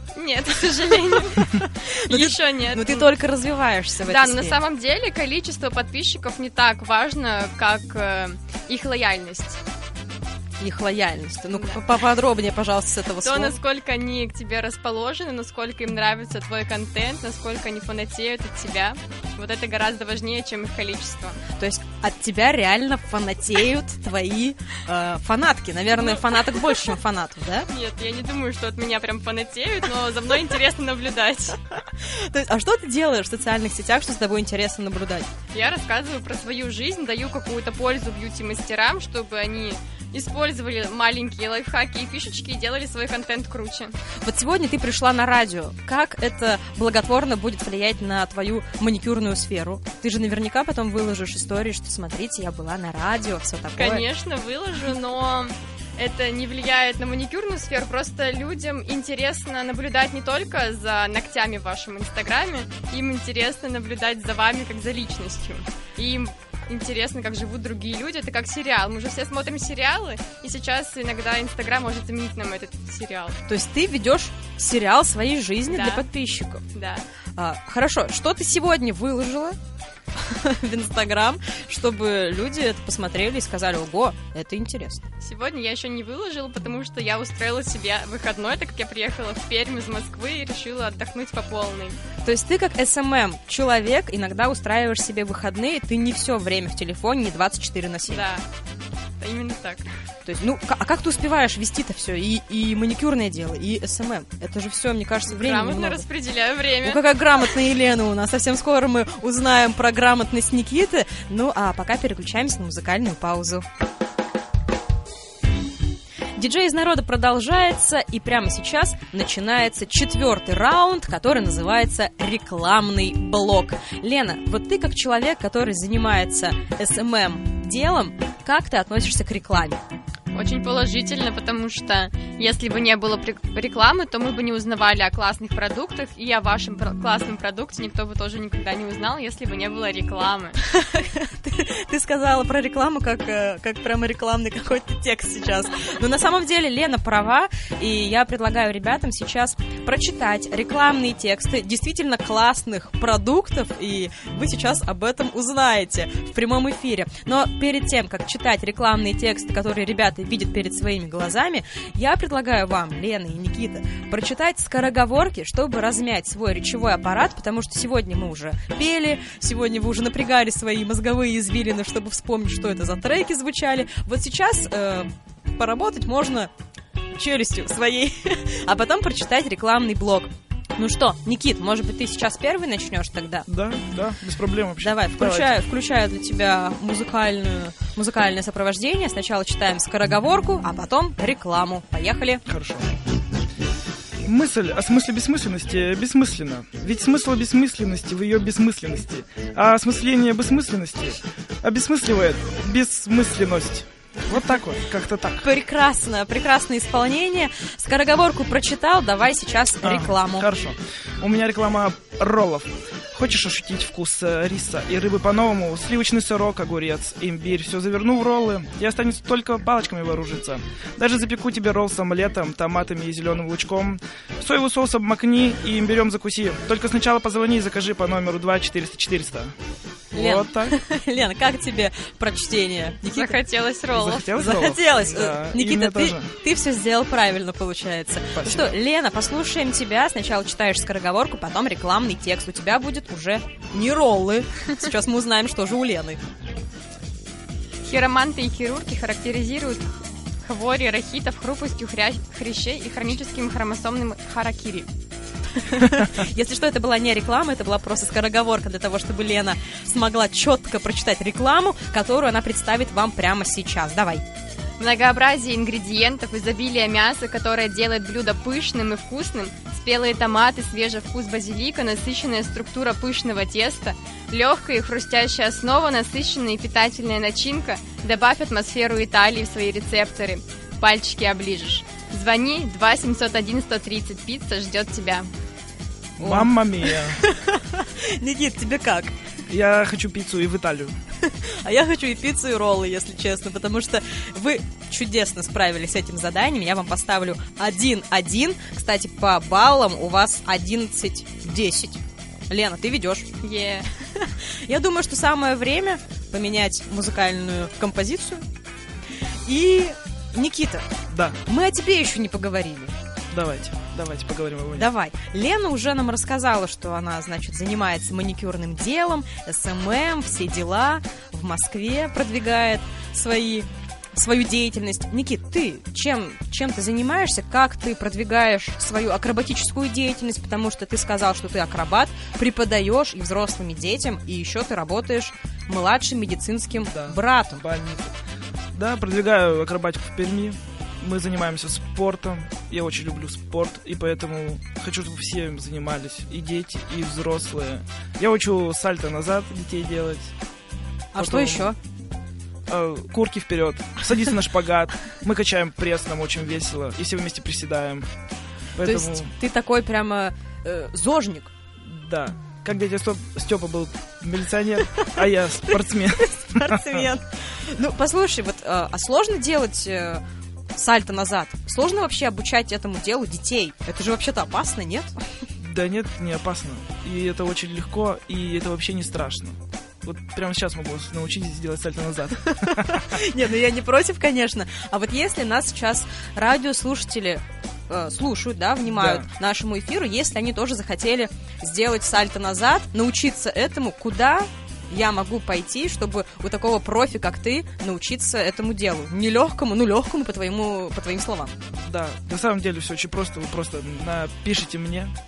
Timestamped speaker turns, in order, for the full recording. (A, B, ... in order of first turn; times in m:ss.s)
0:00.2-0:03.1 A
0:01.6-0:04.6 B
0:04.1-0:09.6 A
0:10.6-0:13.6 B
0:11.5-0:11.8 A
0:13.2-0:21.4 A
0:21.5-0:27.7 B
0:26.0-0:26.9 A
0:27.7-0:31.6 A
0:32.0-0:35.3 B
0:35.5-0:44.0 A
0:44.2-0:54.0 B
0:53.8-1:13.4 A
1:13.5-1:16.6 B
1:15.7-1:16.0 A
1:16.7-1:17.0 A
1:17.4-1:19.6 B
1:20.2-1:25.0 B
1:25.2-1:32.0 A
1:32.2-1:38.3 B
1:38.1-1:38.4 A
1:39.2-1:39.9 A
1:40.2-1:46.0 B
1:45.3-1:47.1 A
1:46.8-1:53.6 B
1:56.4-2:09.8 B
2:10.3-2:20.6 A
2:20.6-2:56.5 B
2:57.2-3:03.5 B
3:03.5-3:05.6 C
3:04.8-3:12.4 B
3:12.5-3:12.9 C
3:14.2-3:25.5 C
3:25.4-3:30.5 B
3:29.8-3:49.6 C
3:50.1-3:50.8 C
3:50.1-3:53.4 B
3:53.1-3:54.4 A
3:53.9-3:56.3 C
3:54.4-4:06.2 B
3:58.4-3:58.8 C
4:07.9-4:09.9 A
4:10.4-4:14.9 A
4:15.6-4:24.2 B
4:24.8-4:45.3 A
4:46.2-4:47.2 C
4:46.2-4:49.2 B
4:49.5-4:51.0 C
4:51.3-5:03.3 B
5:03.4-5:03.9 A
5:04.2-5:08.4 B
5:09.5-5:10.9 B
5:11.1-5:11.4 C
5:11.5-5:12.9 B
5:13.3-5:14.9 C
5:14.7-5:37.6 B
5:36.9-5:38.1 C
5:38.7-5:50.3 C
5:51.1-5:51.8 B
5:51.2-5:51.7 C
5:52.7-5:58.1 C
5:58.8-5:59.3 C
5:58.8-6:01.5 B
6:01.8-6:07.1 C
6:05.8-6:10.2 B
6:10.8-6:15.1 B
6:15.6-6:23.2 C
6:22.5-6:41.6 B
6:28.8-6:29.3 C
6:41.8-6:45.2 C